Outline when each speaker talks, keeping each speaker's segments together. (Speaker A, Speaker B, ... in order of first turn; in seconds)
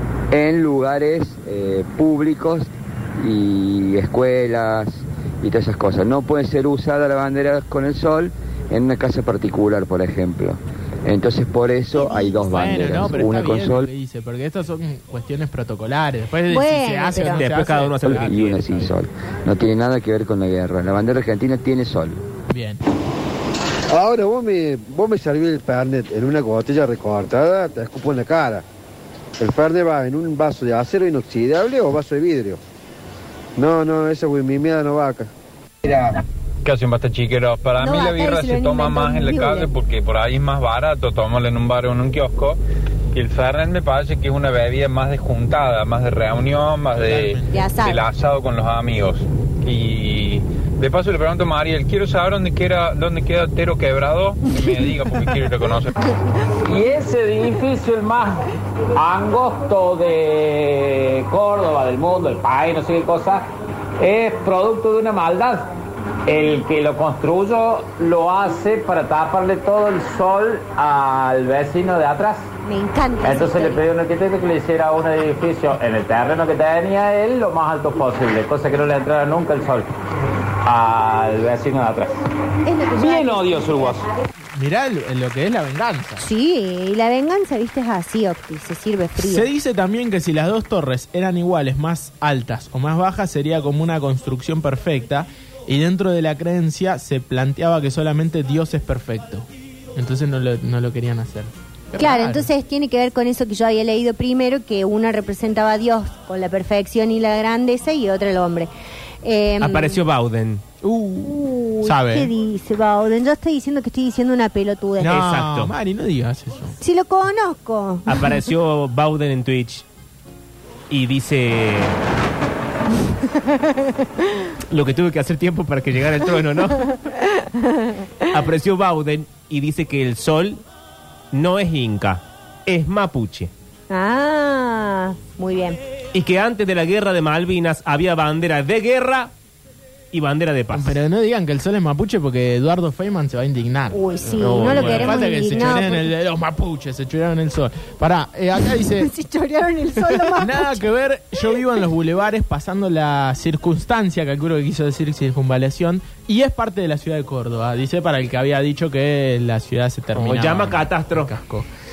Speaker A: 0.3-13.9, 18.1-22.2
Speaker B: 12.3-18.9, 22.5-22.8, 46.9-47.7, 84.5-86.3, 89.2-102.5, 110.8-112.3, 115.0-116.8, 140.7-149.1, 150.3-161.7
Speaker C: 16.5-17.5, 37.8-39.7, 47.5-48.0, 72.6-73.8, 82.7-83.9, 86.2-89.5, 102.0-108.7, 109.2-110.0, 111.2-115.1, 116.8-118.2, 126.8-128.3, 133.9-135.8, 143.9-146.1, 149.0-150.9
Speaker D: 17.2-18.8, 109.6-110.7, 115.1-115.7, 118.1-119.8, 120.9-122.0, 124.7-127.0, 128.3-130.6, 131.3-133.5, 136.1-139.3, 140.1-141.0, 144.4-145.7, 160.2-161.3
Speaker E: 23.9-28.6, 29.4-32.6, 33.6-35.3
Speaker F: 36.6-42.6, 43.1-55.9
Speaker G: 56.6-63.5, 64.0-65.6, 66.3-72.5, 73.2-79.9, 80.6-82.1, 83.0-84.0